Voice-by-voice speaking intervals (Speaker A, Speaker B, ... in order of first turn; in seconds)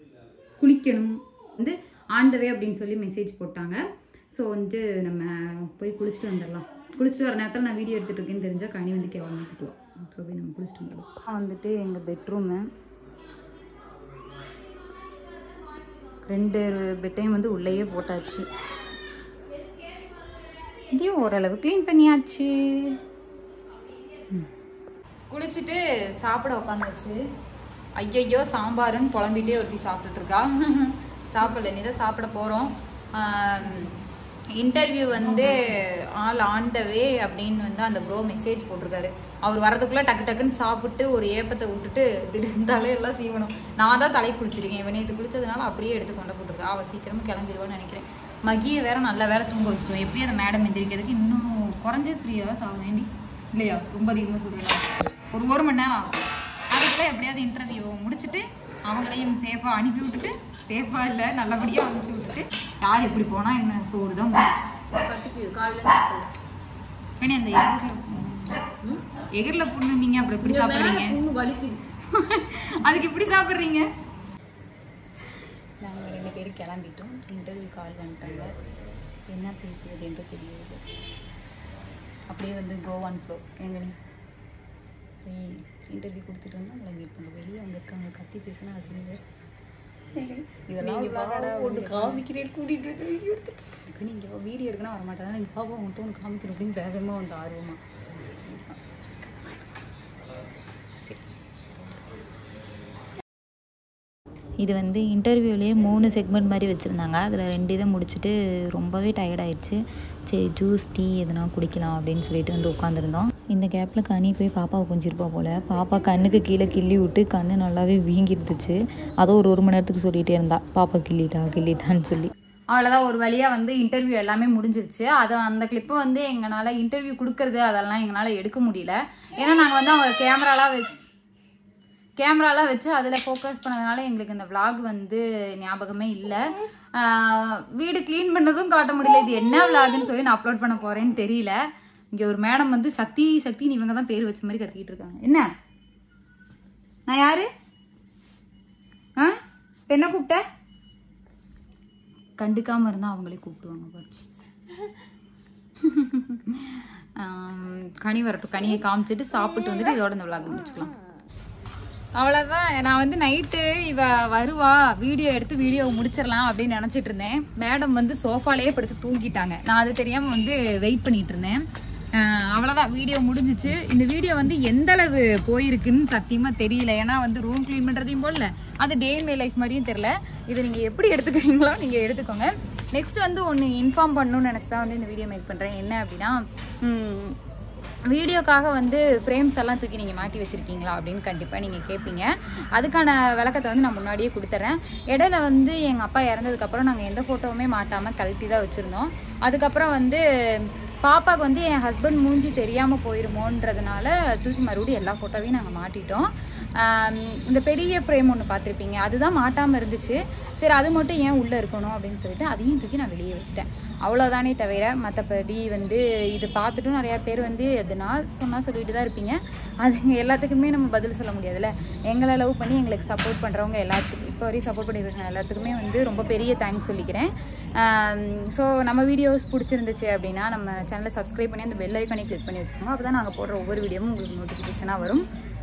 Speaker A: 0.6-12.7, 16.2-18.4, 20.9-22.9, 25.3-27.1, 28.0-33.9, 34.6-64.6, 67.2-68.7, 69.3-71.2, 72.1-73.8, 75.8-78.5, 79.3-80.8, 82.3-83.9, 85.2-89.2, 90.7-92.2, 93.7-97.8, 98.4-99.8, 122.7-131.1, 132.2-136.4, 137.0-141.6, 142.1-145.4, 147.1-147.5, 149.9-150.4, 152.4-154.1, 155.8-160.9, 162.2-171.6, 172.1-187.4, 188.1-235.2
Speaker B: 35.3-35.7, 64.9-66.3, 70.4-71.8, 90.2-93.7
Speaker C: 104.6-122.3